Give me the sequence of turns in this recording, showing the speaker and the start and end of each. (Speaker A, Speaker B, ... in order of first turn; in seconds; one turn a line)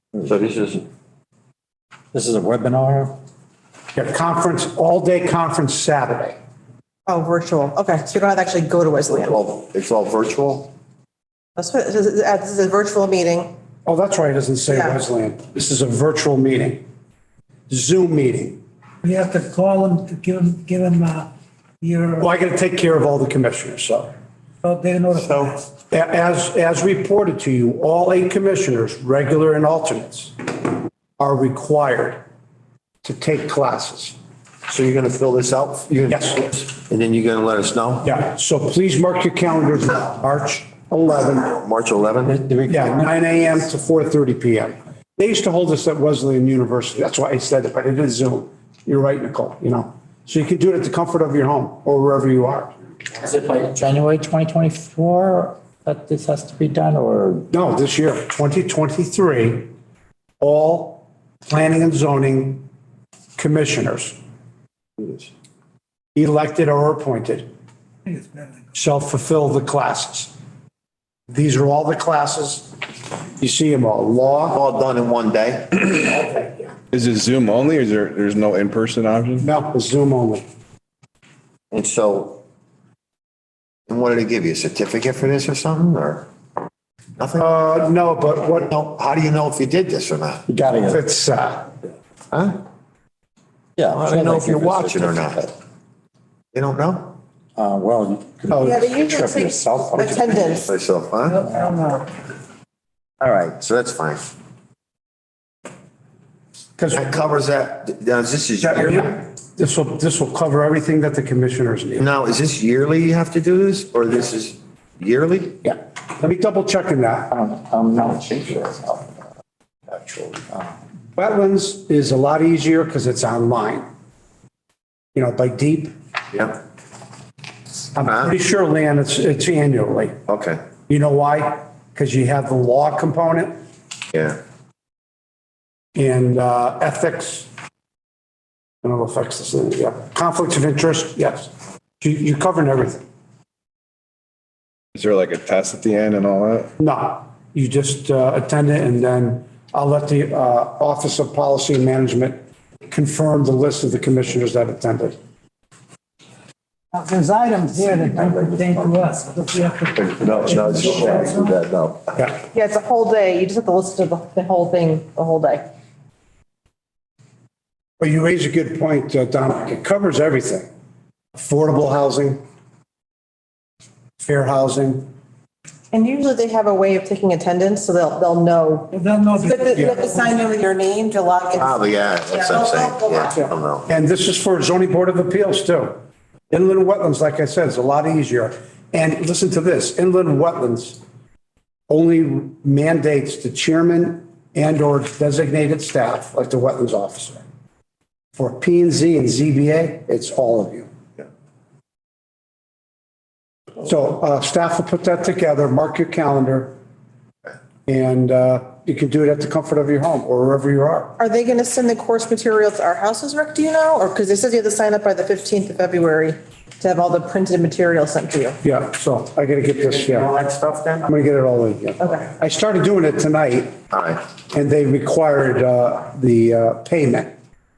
Speaker A: 0.2-0.8
Speaker B: 2.1-3.1
Speaker C: 4.0-6.4
Speaker D: 7.1-9.4
Speaker A: 9.2-10.7
Speaker D: 11.6-13.5
Speaker C: 13.9-16.8
Speaker D: 14.7-15.0
Speaker C: 17.7-18.6
Speaker E: 19.0-21.3
Speaker E: 21.8-22.3
Speaker C: 22.2-24.1
Speaker E: 24.6-25.6
Speaker C: 25.9-30.4
Speaker C: 31.2-32.2
Speaker C: 33.0-34.2
Speaker A: 34.7-38.1
Speaker C: 36.1-36.4
Speaker C: 38.0-41.6
Speaker A: 41.4-42.4
Speaker B: 42.4-42.7
Speaker C: 42.7-52.7
Speaker B: 53.2-57.5
Speaker C: 57.5-59.7
Speaker C: 60.4-62.6
Speaker C: 63.4-64.2
Speaker C: 66.2-67.5
Speaker C: 68.7-70.3
Speaker C: 71.3-72.7
Speaker C: 73.4-74.6
Speaker A: 74.5-75.9
Speaker F: 76.9-79.5
Speaker C: 79.4-80.4
Speaker A: 81.7-82.4
Speaker A: 83.9-86.3
Speaker A: 87.2-87.5
Speaker C: 87.4-88.7
Speaker A: 88.7-90.5
Speaker B: 90.5-91.0
Speaker C: 90.9-91.7
Speaker A: 92.3-92.6
Speaker B: 93.8-95.5
Speaker A: 93.9-95.5
Speaker A: 96.5-97.2
Speaker B: 97.6-100.6
Speaker D: 98.5-100.7
Speaker A: 100.5-101.5
Speaker E: 101.6-102.0
Speaker A: 103.2-104.3
Speaker C: 106.8-107.2
Speaker A: 106.9-109.2
Speaker C: 108.6-112.1
Speaker A: 112.0-115.6
Speaker C: 115.7-117.3
Speaker B: 117.3-119.2
Speaker B: 119.9-120.7
Speaker C: 121.2-123.9
Speaker C: 125.2-125.9
Speaker C: 128.0-130.2
Speaker A: 128.1-128.3
Speaker A: 130.3-130.6
Speaker C: 130.9-133.6
Speaker A: 134.1-134.4
Speaker C: 135.9-137.5
Speaker C: 138.8-143.1
Speaker F: 145.0-146.7
Speaker C: 146.8-155.2
Speaker E: 156.9-161.5
Speaker A: 160.0-162.2
Speaker D: 162.5-165.7
Speaker C: 168.0-170.7
Speaker C: 171.3-172.4
Speaker C: 174.2-175.1
Speaker D: 175.9-183.5
Speaker E: 178.9-180.0
Speaker A: 181.6-183.9
Speaker C: 183.9-191.0
Speaker C: 191.9-197.4
Speaker C: 198.4-200.9
Speaker C: 203.8-206.7
Speaker C: 207.9-211.1
Speaker D: 211.2-218.6
Speaker C: 218.6-220.3
Speaker A: 220.0-221.1
Speaker C: 221.1-223.8
Speaker A: 223.9-224.2
Speaker C: 224.5-227.3